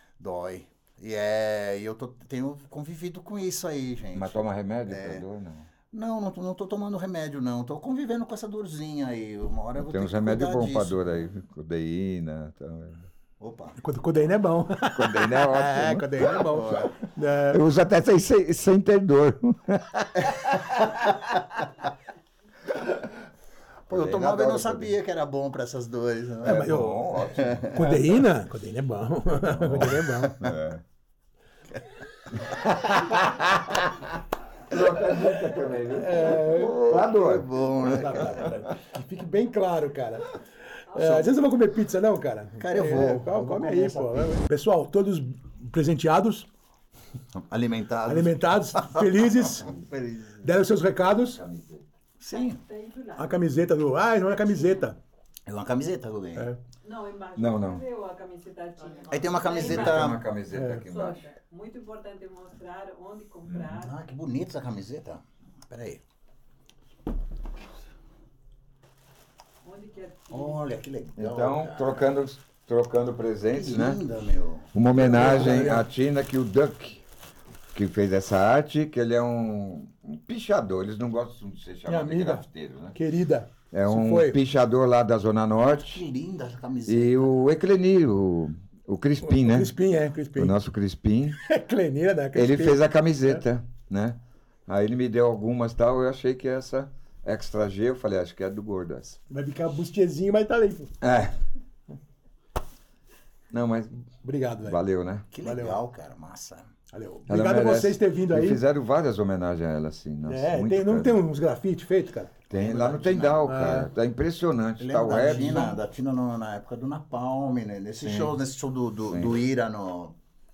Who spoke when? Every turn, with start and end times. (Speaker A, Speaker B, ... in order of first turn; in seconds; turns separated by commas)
Speaker A: 0.2-5.2, Speaker B: 4.1-5.7, Speaker A: 5.9-11.1, Speaker B: 9.8-13.1, Speaker A: 13.4-13.8, Speaker C: 13.8-17.6, Speaker B: 14.9-16.3, Speaker A: 16.4-16.9, Speaker B: 17.4-21.1, Speaker A: 23.9-28.1, Speaker B: 23.9-24.9, Speaker B: 26.4-27.9, Speaker C: 26.4-27.0, Speaker C: 27.7-30.4, Speaker B: 29.4-30.8, Speaker A: 30.0-30.5, Speaker C: 32.8-33.1, Speaker B: 33.2-33.7, Speaker B: 34.7-38.5, Speaker C: 35.9-36.8, Speaker A: 36.1-38.6, Speaker C: 37.9-40.3, Speaker D: 40.9-41.5, Speaker C: 40.9-46.5, Speaker A: 42.6-44.4, Speaker A: 47.3-50.5, Speaker C: 48.1-49.7, Speaker C: 50.4-51.4, Speaker B: 51.2-51.8, Speaker A: 52.2-52.6, Speaker D: 52.3-53.4, Speaker C: 53.1-55.0, Speaker D: 54.4-54.9, Speaker A: 55.5-56.5, Speaker D: 56.8-63.9, Speaker B: 57.4-57.8, Speaker A: 59.1-60.2, Speaker B: 59.6-61.2, Speaker C: 60.5-60.8, Speaker A: 63.6-66.0, Speaker D: 69.6-70.6, Speaker A: 70.3-72.0, Speaker B: 71.2-74.0, Speaker A: 73.5-75.7, Speaker B: 74.7-77.0, Speaker C: 74.9-75.8, Speaker B: 77.7-83.0, Speaker C: 81.9-84.4, Speaker B: 83.7-86.0, Speaker A: 85.8-87.4, Speaker B: 86.8-89.7, Speaker C: 89.2-90.5, Speaker B: 90.3-91.4, Speaker C: 91.4-93.4, Speaker B: 92.3-99.2, Speaker C: 99.3-100.9, Speaker B: 101.0-101.4, Speaker B: 103.5-103.9, Speaker C: 104.2-104.8, Speaker B: 104.6-105.3, Speaker A: 105.3-106.7, Speaker C: 105.4-105.8, Speaker C: 106.9-108.6, Speaker B: 107.3-111.2, Speaker C: 110.3-112.3, Speaker B: 112.5-115.8, Speaker A: 112.5-113.4, Speaker C: 113.4-113.9, Speaker A: 114.8-120.1, Speaker B: 118.0-118.3, Speaker B: 119.1-119.3